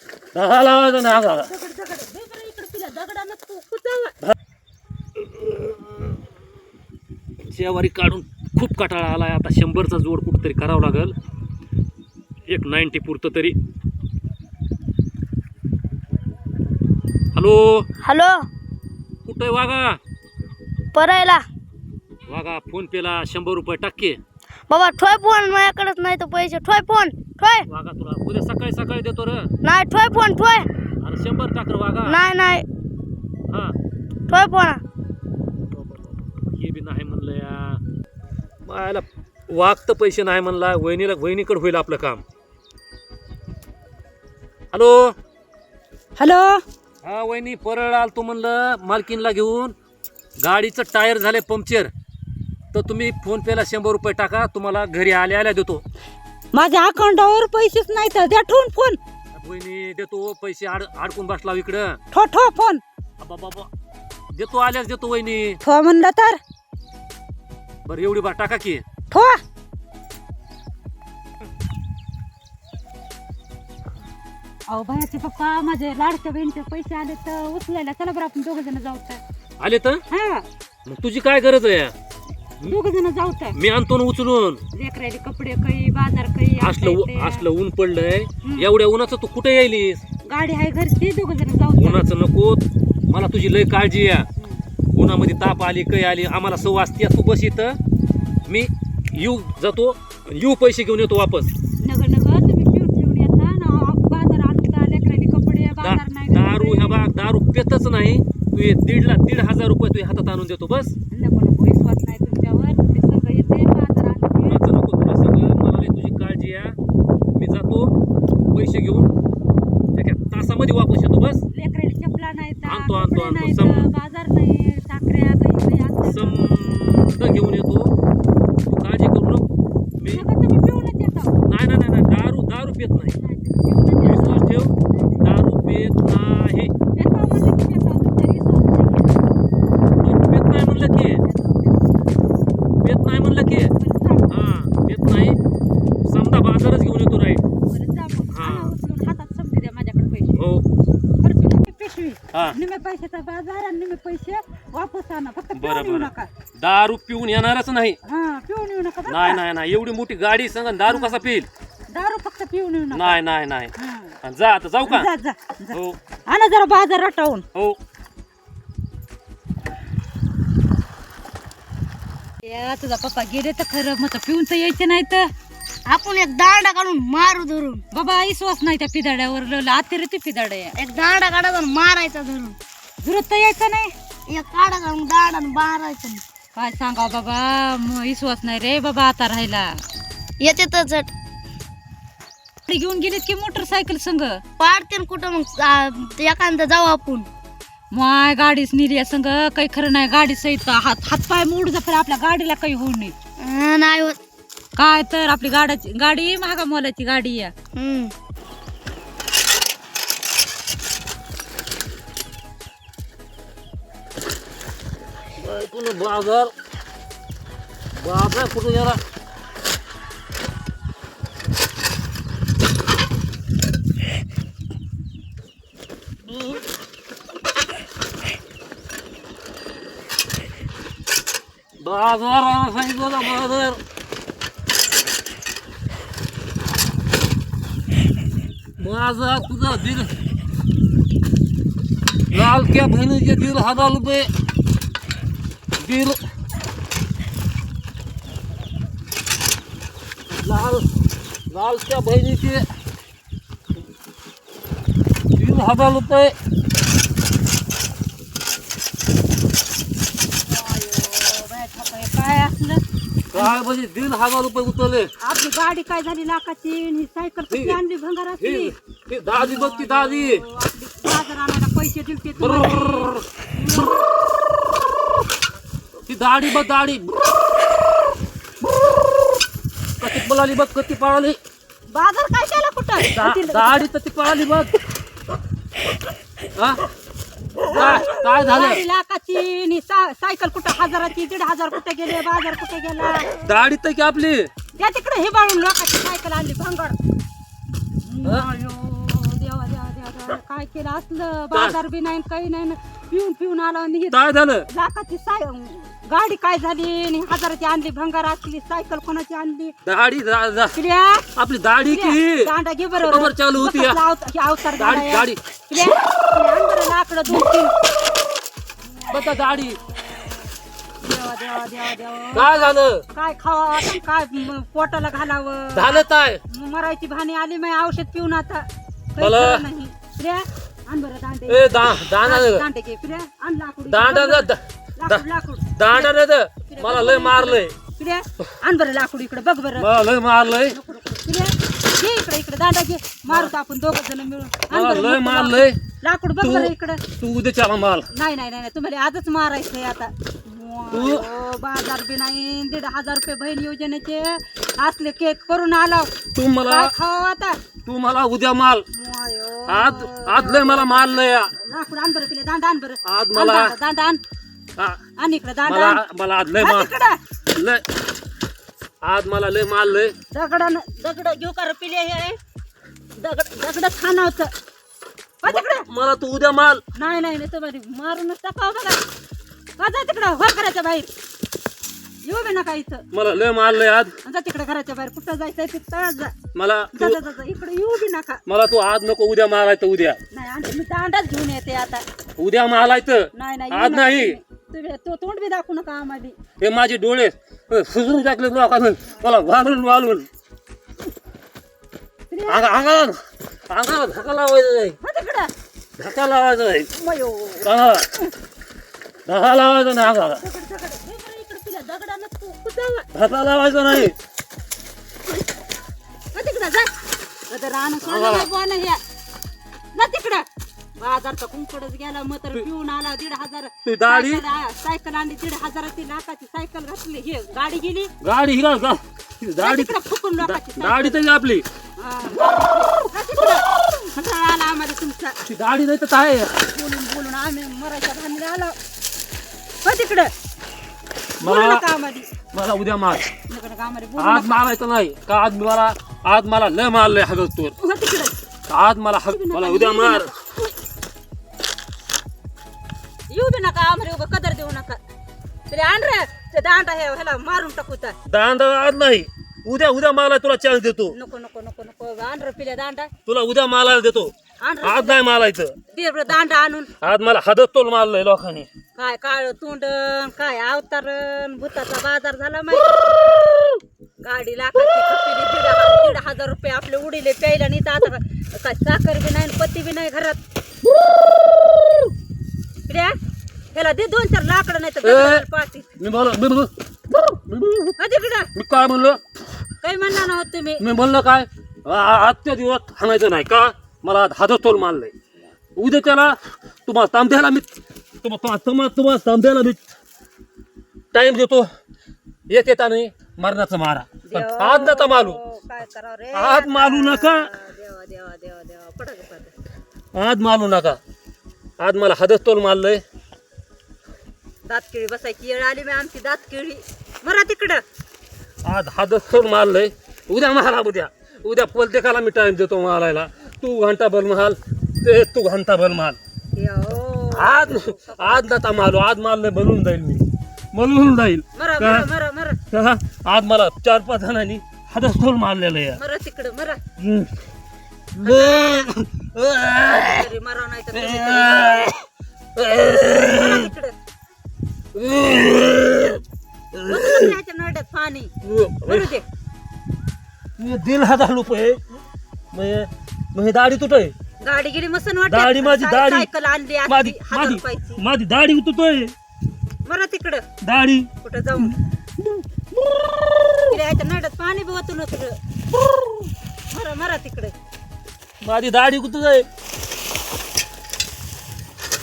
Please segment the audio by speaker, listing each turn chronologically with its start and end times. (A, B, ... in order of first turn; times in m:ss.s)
0:00.3-0:01.5 A
0:01.2-0:04.2 B
0:07.5-0:11.1 A
0:12.5-0:13.6 A
0:17.4-0:17.9 A
0:18.0-0:18.5 C
0:19.3-0:20.0 A
0:21.0-0:21.4 C
0:22.3-0:24.2 A
0:24.7-0:27.7 C
0:27.7-0:29.5 A
0:29.6-0:30.7 C
0:31.0-0:32.2 A
0:32.0-0:32.6 C
0:33.5-0:33.8 A
0:34.3-0:34.8 C
0:35.7-0:37.8 A
0:38.7-0:42.2 A
0:44.7-0:45.2 A
0:46.2-0:46.6 B
0:47.0-0:49.7 A
0:50.4-0:51.9 A
0:52.7-0:55.8 A
0:56.5-0:59.0 B
0:59.3-1:02.0 A
1:02.1-1:02.8 B
1:03.2-1:03.7 A
1:04.3-1:05.6 A
1:05.6-1:06.4 B
1:07.9-1:08.8 A
1:09.1-1:09.4 B
1:14.7-1:19.2 B
1:19.6-1:20.0 A
1:20.1-1:20.5 B
1:20.9-1:21.9 A
1:22.6-1:23.6 B
1:23.6-1:24.6 A
1:24.7-1:27.5 B
1:26.6-1:30.0 A
1:28.4-1:28.7 B
1:30.2-1:32.1 B
1:31.8-1:34.2 A
1:35.0-1:37.8 A
1:38.5-1:41.5 A
1:41.8-1:47.0 B
1:45.8-1:51.0 A
1:51.1-1:54.6 B
1:54.4-1:56.8 A
1:57.3-1:58.0 A
1:58.5-1:59.1 A
1:59.9-2:01.4 A
2:01.5-2:06.6 B
2:02.6-2:03.9 A
2:06.1-2:07.9 A
2:08.7-2:10.2 A
2:10.1-2:11.4 B
2:11.4-2:13.2 A
2:13.2-2:15.2 B
2:14.0-2:16.7 A
2:16.9-2:19.2 B
2:20.0-2:21.2 A
2:21.2-2:22.0 B
2:22.8-2:23.7 A
2:23.8-2:24.4 B
2:24.3-2:25.4 A
2:26.0-2:27.4 A
2:27.7-2:30.4 B
2:28.3-2:28.8 A
2:30.4-2:30.6 A
2:31.2-2:36.3 B
2:35.5-2:38.0 A
2:38.0-2:39.4 B
2:39.1-2:41.5 A
2:40.8-2:41.2 B
2:41.9-2:43.2 B
2:42.9-2:43.7 A
2:43.8-2:44.2 B
2:44.2-2:45.1 A
2:44.8-2:47.4 B
2:45.7-2:46.0 A
2:52.4-2:55.3 B
2:55.9-2:57.8 C
2:57.9-3:00.7 B
3:00.8-3:02.6 C
3:03.0-3:03.9 B
3:04.3-3:06.2 C
3:06.6-3:09.7 B
3:10.4-3:11.1 C
3:12.7-3:14.4 B
3:14.6-3:17.3 C
3:17.9-3:23.1 B
3:23.4-3:24.2 C
3:24.8-3:27.5 B
3:27.8-3:28.1 C
3:35.4-3:36.5 A
3:38.0-3:39.0 A
3:46.3-3:46.6 A
3:51.8-3:53.8 A
3:58.8-4:00.1 A
4:02.3-4:04.3 A
4:05.8-4:06.2 A
4:10.3-4:10.8 A
4:11.5-4:12.6 A
4:15.3-4:16.3 A
4:20.4-4:22.8 B
4:23.3-4:25.1 A
4:25.2-4:28.7 B
4:27.5-4:27.8 A
4:28.4-4:30.4 A
4:29.3-4:34.0 B
4:32.4-4:33.2 A
4:36.1-4:37.2 A
4:40.0-4:41.4 A
4:41.9-4:43.9 B
4:43.1-4:44.7 A
4:46.6-4:46.8 A
4:47.6-4:48.8 A
4:47.7-4:53.3 B
4:53.4-4:54.5 A
4:54.8-4:57.0 B
4:58.0-5:09.7 B
5:01.5-5:01.8 A
5:04.1-5:04.7 A
5:09.8-5:10.8 A
5:10.7-5:11.2 B
5:11.4-5:14.0 A
5:11.9-5:17.7 B
5:14.8-5:15.4 A
5:19.0-5:20.3 B
5:19.1-5:19.8 A
5:21.0-5:39.9 B
5:22.3-5:23.0 A
5:25.7-5:26.4 A
5:29.2-5:29.6 A
5:31.5-5:32.6 A
5:33.9-5:35.2 A
5:35.8-5:37.7 A
5:39.8-5:40.7 A
5:40.6-5:47.0 B
5:44.7-5:45.8 A
5:46.4-5:48.1 A
5:48.1-5:56.1 B
5:50.9-5:51.2 A
5:56.3-5:56.9 A
5:56.6-5:57.6 B
5:57.8-5:58.8 A
5:58.9-6:04.2 B
5:59.7-6:01.5 A
6:03.0-6:03.7 A
6:05.2-6:06.0 B
6:05.6-6:06.9 A
6:06.6-6:07.2 B
6:07.6-6:07.8 A
6:09.0-6:10.1 A
6:10.3-6:12.4 B
6:13.2-6:14.5 B
6:15.4-6:15.8 B
6:15.4-6:16.8 A
6:17.0-6:19.0 B
6:19.8-6:21.1 B
6:22.2-6:23.0 B
6:23.1-6:24.1 A
6:24.2-6:26.3 B
6:26.5-6:27.2 A
6:26.9-6:28.4 B
6:28.5-6:30.2 A
6:30.3-6:32.0 B
6:32.4-6:34.4 A
6:33.3-6:36.4 B
6:36.6-6:40.3 A
6:42.3-6:42.7 B
6:42.5-6:43.2 A
6:43.7-6:45.0 A
6:45.0-6:45.5 B
6:46.0-6:46.9 A
6:46.9-6:48.3 B
6:47.6-6:48.0 A
6:49.3-6:50.4 A
6:50.4-6:53.1 B
6:53.1-6:54.1 A
6:56.3-6:56.9 B
6:57.5-6:59.0 B
6:58.0-6:58.5 A
6:59.9-7:00.4 B
7:01.0-7:08.1 B
7:03.8-7:04.4 A
7:08.2-7:11.6 A
7:09.6-7:11.2 B
7:12.0-7:15.4 B
7:15.5-7:16.5 A
7:16.6-7:18.8 B
7:19.8-7:20.3 B
7:21.4-7:21.8 A
7:21.4-7:22.3 B
7:22.5-7:23.3 A
7:23.5-7:24.6 B
7:24.2-7:27.7 A
7:27.8-7:28.4 B
7:28.7-7:30.3 A
7:29.3-7:30.6 B
7:33.3-7:35.0 B
7:35.7-7:38.1 B
7:38.3-7:41.1 A
7:41.1-7:43.1 B
7:43.2-7:44.3 A
7:44.6-7:45.2 B
7:44.8-7:45.7 A
7:45.9-7:46.9 B
7:47.0-7:48.7 A
7:49.0-7:53.0 B
7:54.2-8:00.4 B
8:02.9-8:03.2 B
8:03.7-8:05.9 B
8:05.0-8:05.4 A
8:06.0-8:08.0 A
8:08.0-8:08.5 B
8:08.5-8:09.2 A
8:09.8-8:10.8 B
8:10.8-8:15.1 A
8:15.8-8:17.7 A
8:18.2-8:19.9 A
8:21.1-8:21.7 A
8:22.5-8:25.4 A
8:24.2-8:29.5 B
8:26.3-8:27.5 A
8:30.1-8:31.0 A
8:31.8-8:33.0 A
8:34.7-8:37.8 B
8:38.6-8:46.2 A
8:46.5-8:48.6 B
8:47.4-8:52.1 A
8:51.6-8:52.6 B
8:52.7-8:56.0 A
8:56.0-8:56.8 B
8:57.0-8:57.3 A
8:58.1-9:00.2 A
8:58.2-8:58.9 B
8:59.9-9:01.9 B
9:00.9-9:02.0 A
9:02.6-9:03.7 A
9:03.1-9:03.9 B
9:04.9-9:06.2 A
9:06.7-9:07.4 A
9:06.9-9:08.3 B
9:08.4-9:09.1 A
9:08.9-9:09.2 B
9:10.6-9:11.8 A
9:12.5-9:14.1 A
9:14.4-9:18.0 B
9:15.3-9:16.3 A
9:16.9-9:19.1 A
9:19.9-9:20.4 B
9:20.6-9:23.8 A
9:21.2-9:21.8 B
9:23.7-9:25.4 B
9:26.7-9:27.5 B
9:28.4-9:29.4 A